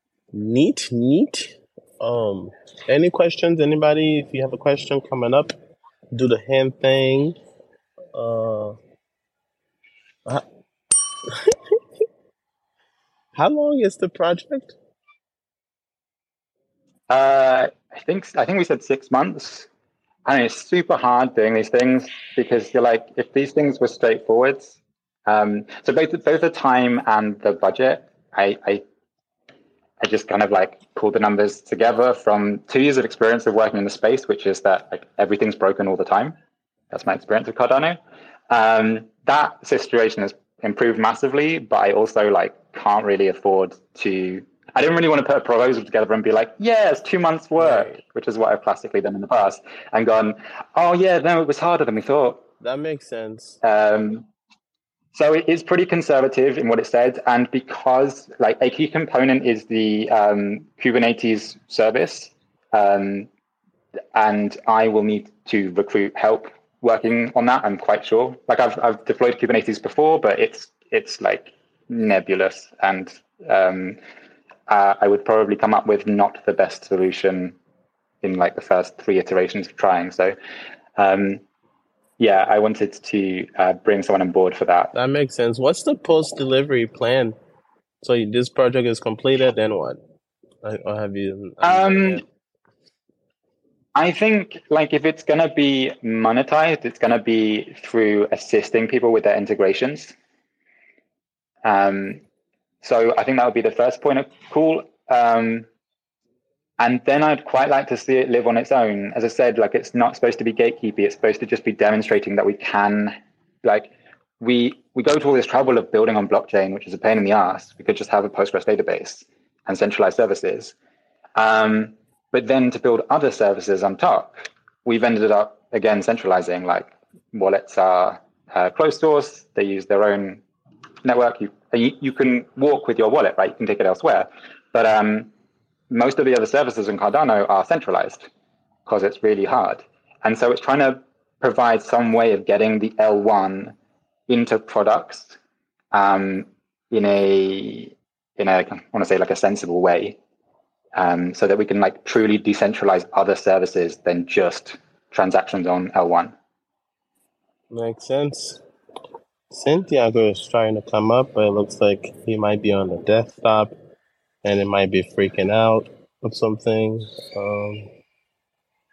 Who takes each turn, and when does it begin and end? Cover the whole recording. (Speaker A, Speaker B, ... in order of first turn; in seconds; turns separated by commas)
Speaker A: 0.3-5.5, Speaker A: 6.1-7.4, Speaker A: 8.1-8.8, Speaker A: 13.3-14.8, Speaker B: 17.1-19.7, Speaker B: 20.3-28.8, Speaker B: 30.0-36.4, Speaker B: 36.9-38.0, Speaker B: 38.5-52.4, Speaker A: 47.6-48.0, Speaker A: 52.6-53.6, Speaker B: 53.6-54.3, Speaker B: 55.1-63.3, Speaker B: 64.1-74.0, Speaker B: 74.7-77.6, Speaker B: 78.2-80.3, Speaker B: 81.0-81.4, Speaker B: 82.2-84.9, Speaker A: 84.9-87.4, Speaker A: 88.0-90.0, Speaker A: 90.6-92.2, Speaker B: 91.6-92.2, Speaker B: 94.0-100.2, Speaker B: 101.6-102.2, Speaker B: 102.8-105.7, Speaker B: 106.8-120.7, Speaker B: 121.4-130.4, Speaker B: 131.0-135.3, Speaker B: 135.9-138.3, Speaker B: 138.9-143.8, Speaker B: 144.3-145.4, Speaker B: 145.9-150.2, Speaker B: 150.9-156.3, Speaker A: 157.7-158.6, Speaker A: 159.5-163.7, Speaker A: 164.4-167.9